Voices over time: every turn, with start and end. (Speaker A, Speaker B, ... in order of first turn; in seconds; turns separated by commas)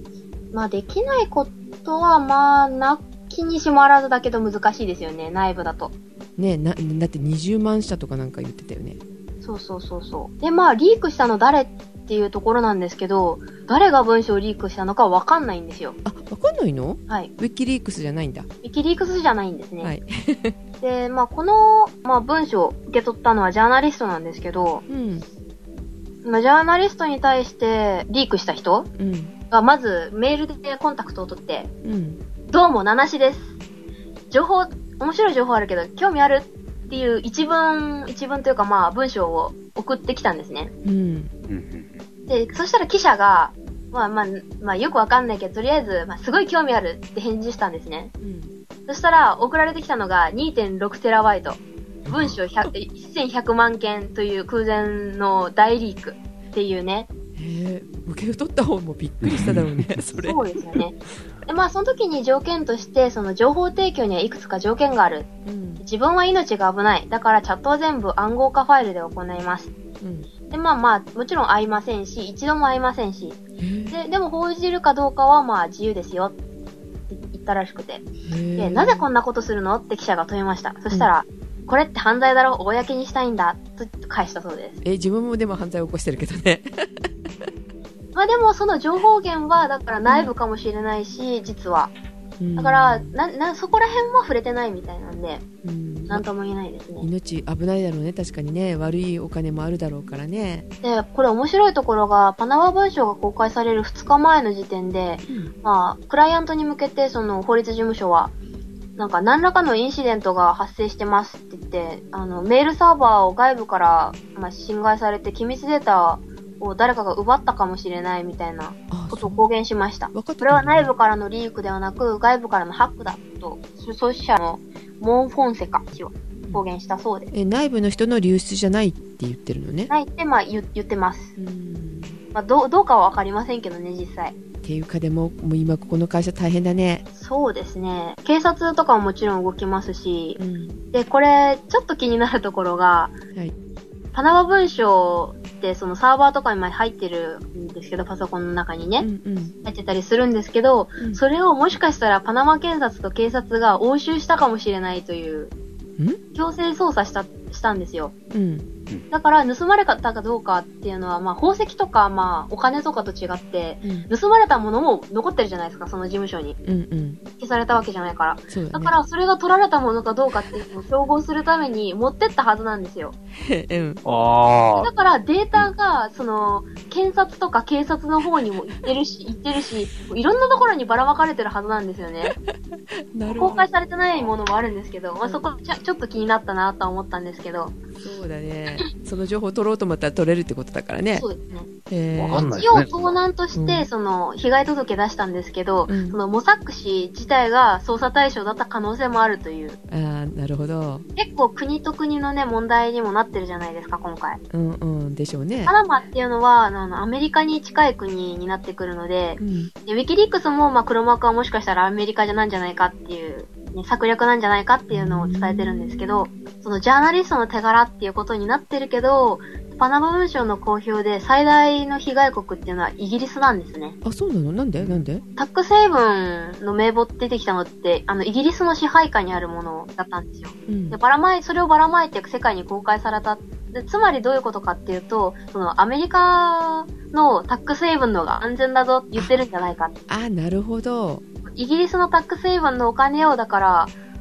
Speaker A: 0.5-5.9, Speaker B: 6.4-9.0, Speaker A: 9.4-16.0, Speaker B: 16.0-18.5, Speaker A: 18.6-19.9, Speaker B: 19.8-20.6, Speaker A: 20.8-24.8, Speaker B: 24.9-25.2, Speaker A: 26.2-28.9, Speaker B: 29.0-29.3, Speaker A: 29.5-31.7, Speaker B: 31.8-32.2, Speaker A: 32.5-33.5, Speaker A: 34.3-40.7, Speaker B: 40.8-41.3, Speaker C: 41.5-42.0, Speaker A: 42.3-48.1, Speaker B: 48.2-48.5, Speaker A: 48.9-57.1, Speaker B: 52.0-52.7, Speaker B: 57.4-60.4, Speaker C: 59.2-59.8, Speaker A: 60.2-65.3, Speaker B: 65.4-65.8, Speaker A: 65.8-69.7, Speaker B: 70.0-70.3, Speaker A: 70.5-76.3, Speaker B: 73.6-73.9, Speaker A: 77.1-78.0, Speaker B: 78.2-79.1, Speaker A: 78.6-84.8, Speaker B: 84.8-87.5, Speaker A: 88.1-91.9, Speaker B: 92.4-93.1, Speaker A: 92.5-95.4, Speaker B: 95.6-96.2, Speaker A: 96.1-97.1, Speaker B: 97.0-100.7, Speaker A: 100.8-108.3, Speaker B: 105.2-105.5, Speaker A: 109.0-127.3, Speaker B: 118.9-119.4, Speaker B: 120.1-120.9, Speaker B: 127.3-129.9, Speaker A: 129.9-131.3, Speaker B: 131.3-132.2, Speaker A: 132.3-134.3, Speaker B: 134.6-137.0, Speaker A: 137.1-140.4, Speaker B: 140.4-140.8, Speaker A: 140.9-143.1, Speaker A: 144.1-149.1, Speaker B: 149.0-149.6, Speaker A: 149.6-155.5, Speaker A: 156.3-158.1, Speaker B: 158.3-158.7, Speaker A: 159.1-166.6, Speaker B: 163.8-164.1, Speaker B: 166.6-167.2, Speaker A: 167.4-173.2, Speaker B: 168.5-168.9, Speaker B: 173.4-174.0, Speaker C: 174.0-174.9, Speaker A: 174.7-182.3, Speaker B: 183.1-183.6, Speaker A: 183.3-187.8, Speaker B: 185.2-185.5, Speaker B: 188.0-191.3, Speaker A: 191.1-191.7, Speaker B: 191.9-192.5, Speaker C: 192.1-193.2, Speaker A: 192.5-199.8, Speaker B: 193.5-193.9, Speaker B: 195.9-196.2, Speaker B: 199.9-201.1, Speaker A: 201.2-204.4, Speaker B: 204.5-205.7, Speaker A: 205.7-224.0, Speaker B: 209.4-209.7, Speaker B: 214.9-216.3, Speaker B: 224.0-225.2, Speaker A: 225.3-239.9, Speaker B: 230.7-231.0, Speaker B: 240.1-241.2, Speaker A: 241.5-243.9